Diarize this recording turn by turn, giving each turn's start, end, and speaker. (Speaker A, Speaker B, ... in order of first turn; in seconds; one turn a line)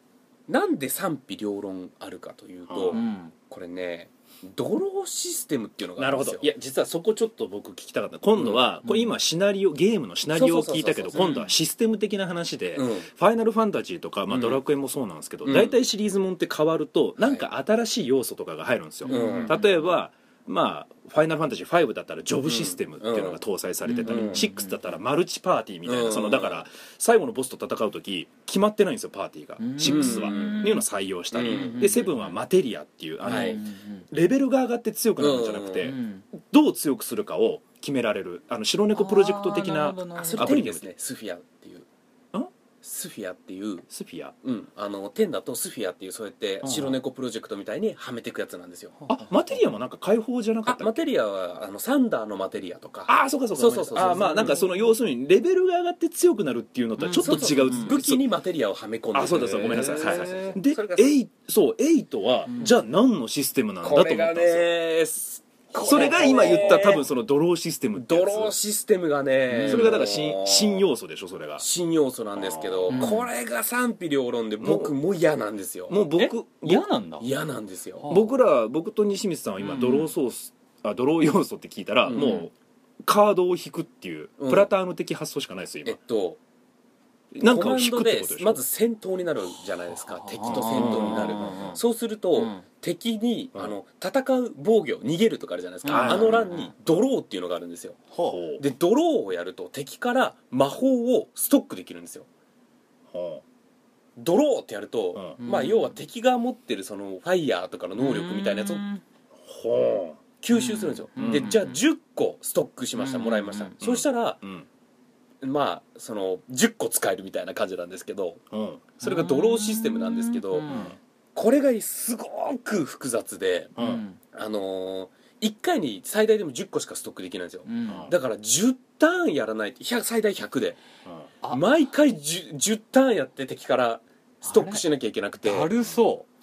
Speaker A: 0.5-6.5
Speaker B: 2.7-3.0
Speaker C: 2.9-3.3
Speaker B: 6.0-40.9
Speaker A: 8.4-8.6
Speaker C: 8.8-9.2
Speaker A: 10.3-11.4
Speaker C: 11.2-11.5
Speaker A: 12.8-13.1
Speaker A: 14.3-14.6
Speaker A: 15.4-15.8
Speaker A: 17.2-17.5
Speaker C: 19.1-19.7
Speaker A: 19.1-19.6
Speaker A: 22.4-23.4
Speaker C: 23.9-24.8
Speaker A: 24.1-24.5
Speaker A: 25.9-26.6
Speaker C: 29.6-30.9
Speaker A: 29.8-30.8
Speaker A: 31.3-32.1
Speaker C: 31.4-32.4
Speaker C: 33.2-34.1
Speaker A: 33.2-33.6
Speaker A: 35.2-35.9
Speaker C: 35.8-36.3
Speaker C: 38.9-40.5
Speaker A: 40.2-41.9
Speaker A: 42.8-43.9
Speaker B: 43.9-44.4
Speaker A: 44.4-49.0
Speaker B: 46.6-47.0
Speaker B: 49.1-51.0
Speaker A: 50.7-54.6
Speaker B: 53.1-58.2
Speaker C: 54.0-54.8
Speaker C: 57.0-57.9
Speaker A: 57.1-61.1
Speaker B: 59.1-64.7
Speaker C: 59.4-60.6
Speaker A: 63.8-67.0
Speaker B: 65.8-68.6
Speaker C: 65.8-67.0
Speaker A: 68.0-70.9
Speaker C: 69.5-70.0
Speaker B: 69.7-71.7
Speaker A: 71.6-76.0
Speaker B: 72.4-73.2
Speaker C: 72.9-73.3
Speaker B: 74.6-75.0
Speaker B: 75.9-76.9
Speaker C: 76.2-77.3
Speaker A: 77.2-78.1
Speaker C: 78.0-78.3
Speaker B: 78.1-86.0
Speaker C: 79.6-80.1
Speaker A: 82.1-82.5
Speaker A: 84.4-84.7
Speaker A: 85.8-86.4
Speaker B: 87.3-88.6
Speaker A: 87.4-98.0
Speaker C: 89.9-91.8
Speaker B: 90.5-91.7
Speaker C: 92.4-92.6
Speaker C: 95.8-96.7
Speaker B: 95.9-96.5
Speaker C: 98.1-98.4
Speaker B: 98.3-98.6
Speaker A: 98.6-102.3
Speaker B: 103.1-103.4
Speaker A: 104.2-108.8
Speaker C: 105.4-105.9
Speaker C: 108.0-109.0
Speaker B: 109.4-110.2
Speaker A: 110.4-114.4
Speaker C: 110.5-111.8
Speaker B: 111.2-111.6
Speaker C: 113.0-113.8
Speaker B: 113.8-114.7
Speaker A: 115.4-118.4
Speaker B: 118.5-119.0
Speaker A: 119.0-120.8
Speaker C: 119.0-121.0
Speaker B: 120.7-121.0
Speaker A: 121.3-123.8
Speaker B: 123.8-124.0
Speaker C: 123.8-124.2
Speaker A: 124.3-130.8
Speaker C: 127.7-128.1
Speaker B: 127.9-128.1
Speaker A: 131.5-135.7
Speaker C: 134.4-134.8
Speaker C: 135.4-136.3